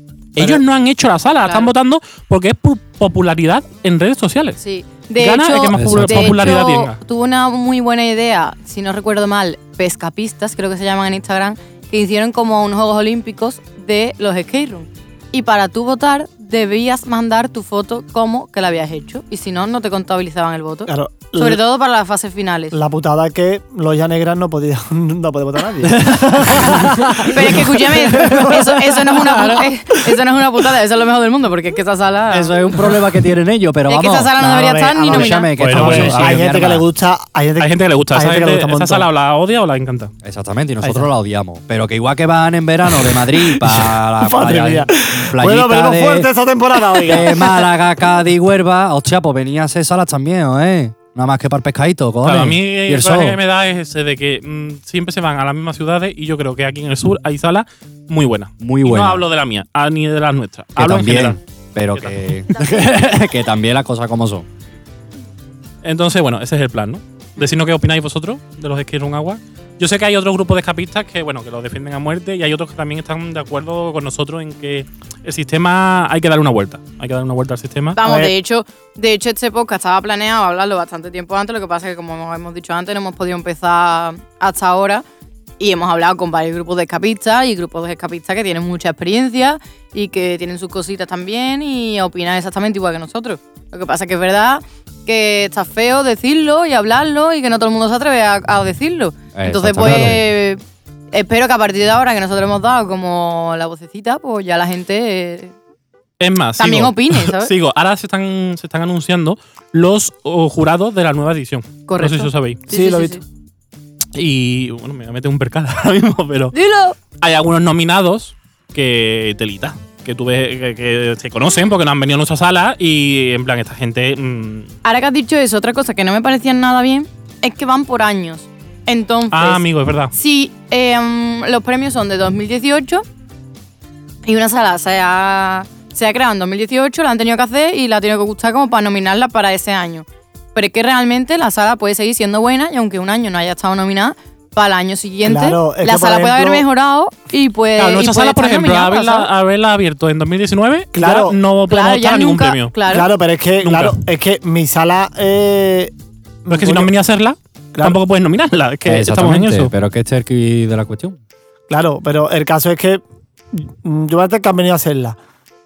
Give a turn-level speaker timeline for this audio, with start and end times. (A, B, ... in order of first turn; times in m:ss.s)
0:00.3-0:04.6 A
0:01.4-0:01.7 B
0:04.6-0:22.7 B
0:05.2-0:07.0 A
0:05.7-0:06.6 C
0:20.9-0:21.6 D
0:22.7-0:29.6 D
0:25.8-0:29.6 C
0:27.2-0:32.9 B
0:32.3-0:36.8 C
0:33.9-0:35.5 B
0:34.4-0:39.1 D
0:35.6-0:36.4 A
0:37.6-0:40.1 A
0:40.2-0:46.3 C
0:40.8-0:41.1 D
0:42.9-0:47.6 D
0:46.9-0:53.4 C
0:52.2-1:01.4 A
0:58.6-0:59.2 C
1:00.8-1:04.4 C
1:01.9-1:02.3 A
1:05.8-1:18.0 A
1:17.9-1:25.0 B
1:18.0-1:18.3 D
1:25.6-1:40.6 B
1:39.3-1:40.2 C
1:41.1-1:45.5 B
1:46.2-1:52.6 A
1:46.6-1:47.5 B
1:51.9-1:53.2 B
1:52.7-1:53.2 D
1:54.1-1:56.5 A
1:56.5-1:57.0 B
1:57.2-2:04.7 A
2:04.8-2:13.0 B
2:09.3-2:10.1 A
2:14.2-2:29.3 B
2:25.2-2:26.6 D
2:27.8-2:32.7 A
2:30.9-2:31.4 D
2:31.7-2:33.1 B
2:32.9-2:35.9 D
2:33.6-2:34.0 A
2:36.4-2:36.9 D
2:36.5-2:39.7 A
2:38.8-2:41.2 C
2:41.7-2:43.0 D
2:43.5-2:45.2 D